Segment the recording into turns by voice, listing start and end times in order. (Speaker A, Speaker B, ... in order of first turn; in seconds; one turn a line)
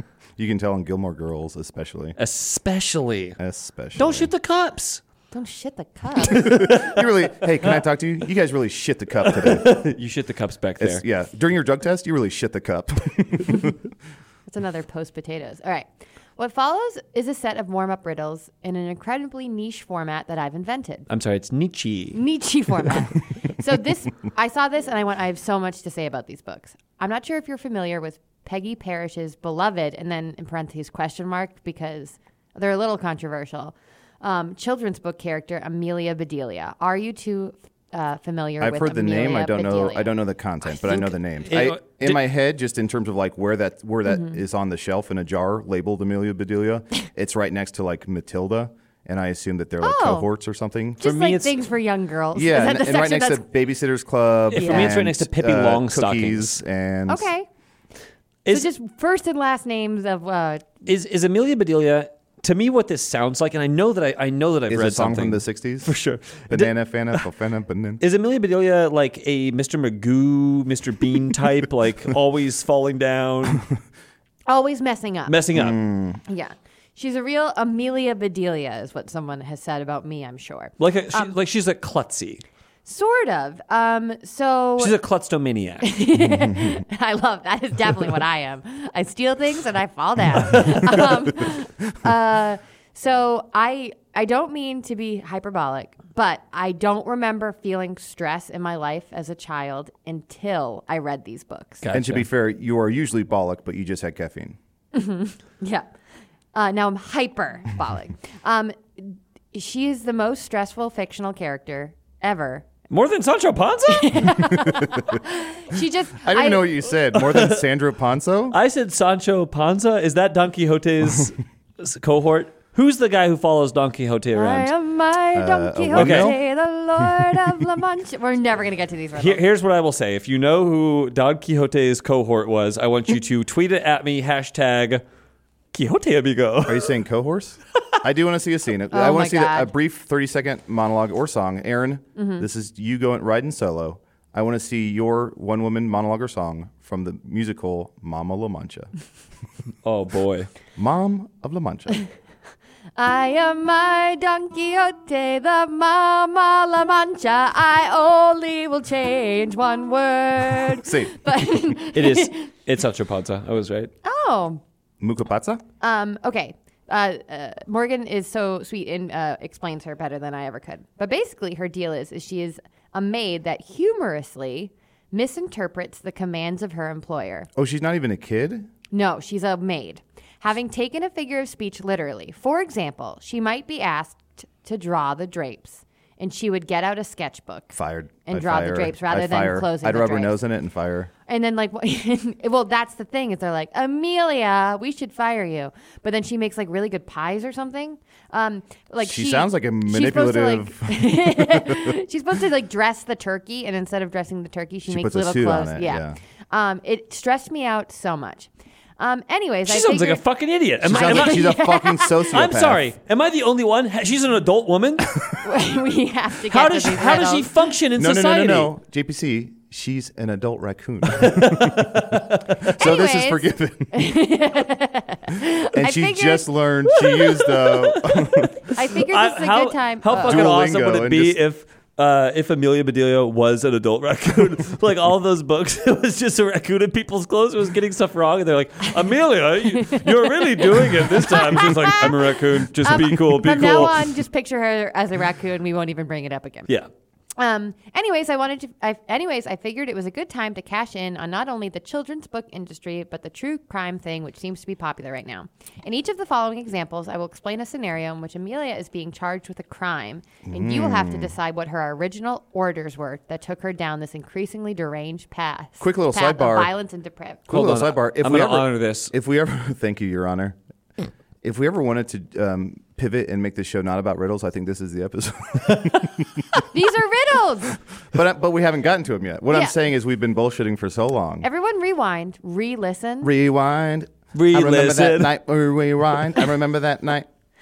Speaker A: 0.4-2.2
Speaker B: 2.2-3.4
Speaker A: 3.4-4.3
Speaker B: 4.0-5.0
Speaker C: 5.3-6.5
Speaker B: 6.2-7.0
Speaker A: 6.3-9.8
Speaker B: 9.2-11.0
Speaker A: 10.8-13.8
Speaker C: 14.5-21.1
Speaker B: 21.1-22.2
Speaker C: 22.1-40.2
Speaker A: 38.6-51.1
Speaker B: 40.8-42.3
Speaker C: 49.8-50.3
Speaker C: 51.0-53.5
Speaker B: 51.0-51.6
Speaker A: 52.3-57.3
Speaker B: 54.5-56.6
Speaker C: 54.5-54.9
Speaker C: 57.1-57.5
Speaker C: 58.5-60.7
Speaker B: 60.9-67.2
Speaker A: 64.7-65.9
Speaker A: 66.5-68.0
Speaker B: 68.0-73.7
Speaker C: 74.5-75.4
Speaker B: 75.3-75.8
Speaker A: 75.5-76.2
Speaker C: 76.3-81.3
Speaker B: 80.8-82.4
Speaker C: 82.9-85.0
Speaker B: 84.8-85.9
Speaker C: 85.8-101.8
Speaker A: 86.2-86.8
Speaker B: 90.5-91.0
Speaker B: 101.8-102.3
Speaker A: 101.9-104.6
Speaker C: 104.9-105.9
Speaker C: 106.5-112.7
Speaker B: 112.9-114.5
Speaker C: 113.9-116.7
Speaker A: 116.2-118.6
Speaker B: 117.1-117.6
Speaker B: 118.5-124.7
Speaker C: 124.3-129.4
Speaker A: 125.3-126.4
Speaker B: 125.9-126.3
Speaker B: 129.2-135.0
Speaker B: 135.7-136.9
Speaker A: 136.6-148.9
Speaker C: 138.9-139.7
Speaker C: 142.2-142.5
Speaker B: 149.8-150.5
Speaker A: 150.8-152.0
Speaker C: 153.0-162.5
Speaker A: 160.8-161.2
Speaker B: 161.9-163.9
Speaker C: 164.0-164.6
Speaker A: 165.0-165.6
Speaker C: 165.8-177.5
Speaker A: 177.6-178.7
Speaker C: 178.9-190.4
Speaker A: 187.7-191.1
Speaker C: 191.3-210.2
Speaker A: 199.0-201.9
Speaker A: 204.9-206.2
Speaker B: 209.7-211.5
Speaker A: 210.8-212.9
Speaker C: 210.9-212.3
Speaker B: 212.3-215.3
Speaker C: 215.4-217.5
Speaker B: 216.5-218.7
Speaker A: 217.9-224.1
Speaker B: 221.2-222.4
Speaker C: 222.7-227.4
Speaker A: 225.7-228.5
Speaker B: 227.8-244.2
Speaker C: 228.7-230.5
Speaker A: 230.1-231.4
Speaker C: 239.8-246.7
Speaker C: 247.4-267.4
Speaker A: 260.5-261.3
Speaker A: 265.8-266.7
Speaker A: 267.5-270.6
Speaker B: 267.5-269.1
Speaker A: 271.4-276.4
Speaker C: 276.7-277.8
Speaker A: 278.0-281.5
Speaker C: 281.4-283.3
Speaker A: 283.2-287.3
Speaker B: 284.3-285.4